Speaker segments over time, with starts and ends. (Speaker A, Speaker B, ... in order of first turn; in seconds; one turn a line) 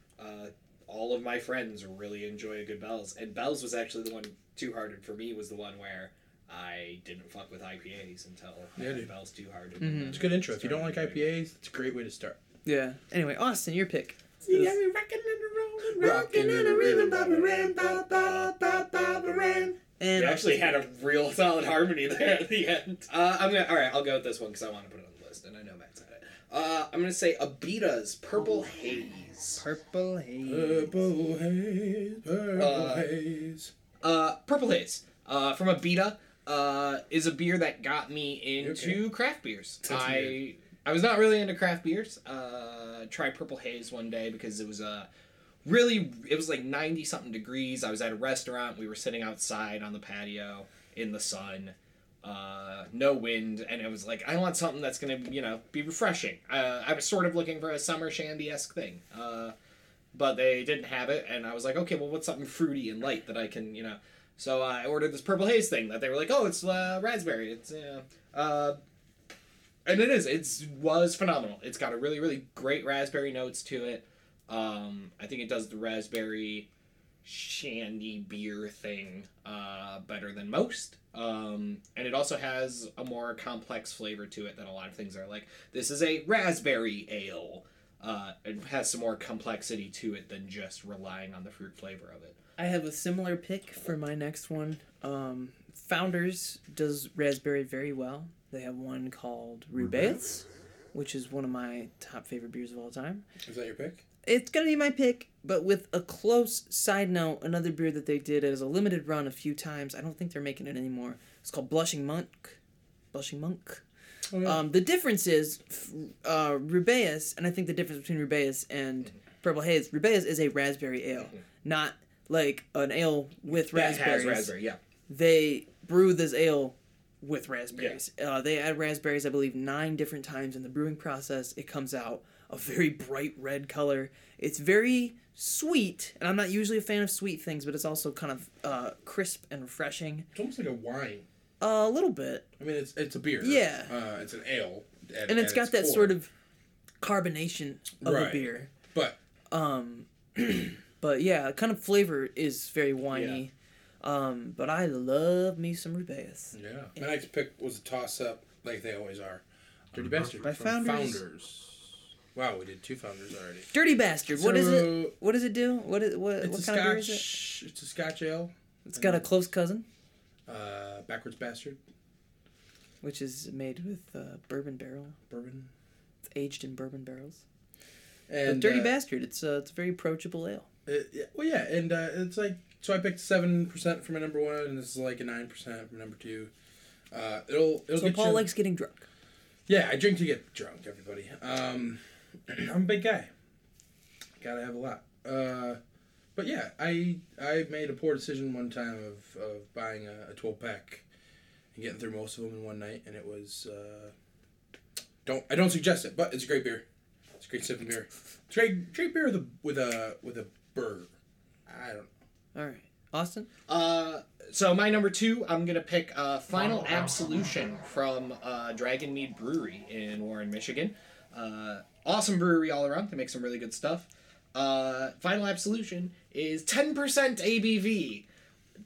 Speaker A: 0.2-11.3
Speaker B: 8.8-9.1
Speaker C: 9.8-10.2
Speaker B: 10.1-12.4
Speaker C: 12.6-14.8
Speaker A: 14.5-29.6
Speaker B: 15.9-19.7
Speaker C: 20.0-20.7
Speaker C: 29.6-30.9
Speaker B: 30.4-33.7
Speaker A: 32.5-33.1
Speaker A: 34.0-45.1
Speaker B: 38.6-39.0
Speaker B: 39.8-40.4
Speaker A: 45.6-59.5
Speaker A: 60.1-68.8
Speaker A: 69.8-76.7
Speaker A: 77.2-92.4
Speaker C: 92.6-103.2
Speaker B: 103.4-104.0
Speaker C: 104.2-112.6
Speaker C: 113.1-113.8
Speaker B: 114.3-114.6
Speaker C: 114.4-124.5
Speaker A: 123.5-124.8
Speaker C: 125.1-140.3
Speaker B: 140.3-141.3
Speaker C: 141.6-142.5
Speaker B: 142.6-146.2
Speaker C: 143.4-143.9
Speaker C: 145.3-146.3
Speaker C: 147.0-148.7
Speaker B: 148.0-149.2
Speaker C: 149.5-156.6
Speaker A: 153.1-153.4
Speaker B: 156.5-163.7
Speaker C: 160.4-161.2
Speaker C: 163.7-167.3
Speaker B: 164.3-165.1
Speaker B: 166.4-169.3
Speaker C: 168.8-169.8
Speaker B: 170.5-171.8
Speaker C: 173.0-175.2
Speaker B: 175.3-175.7
Speaker C: 176.3-177.4
Speaker B: 178.3-178.9
Speaker C: 178.4-180.7
Speaker B: 180.8-186.5
Speaker B: 187.1-188.5
Speaker C: 187.9-189.1
Speaker B: 189.7-193.3
Speaker B: 194.4-195.8
Speaker B: 196.3-201.1
Speaker B: 201.7-204.1
Speaker B: 205.2-206.8
Speaker B: 207.4-211.1
Speaker B: 211.7-212.1
Speaker C: 212.5-213.5
Speaker A: 213.7-228.2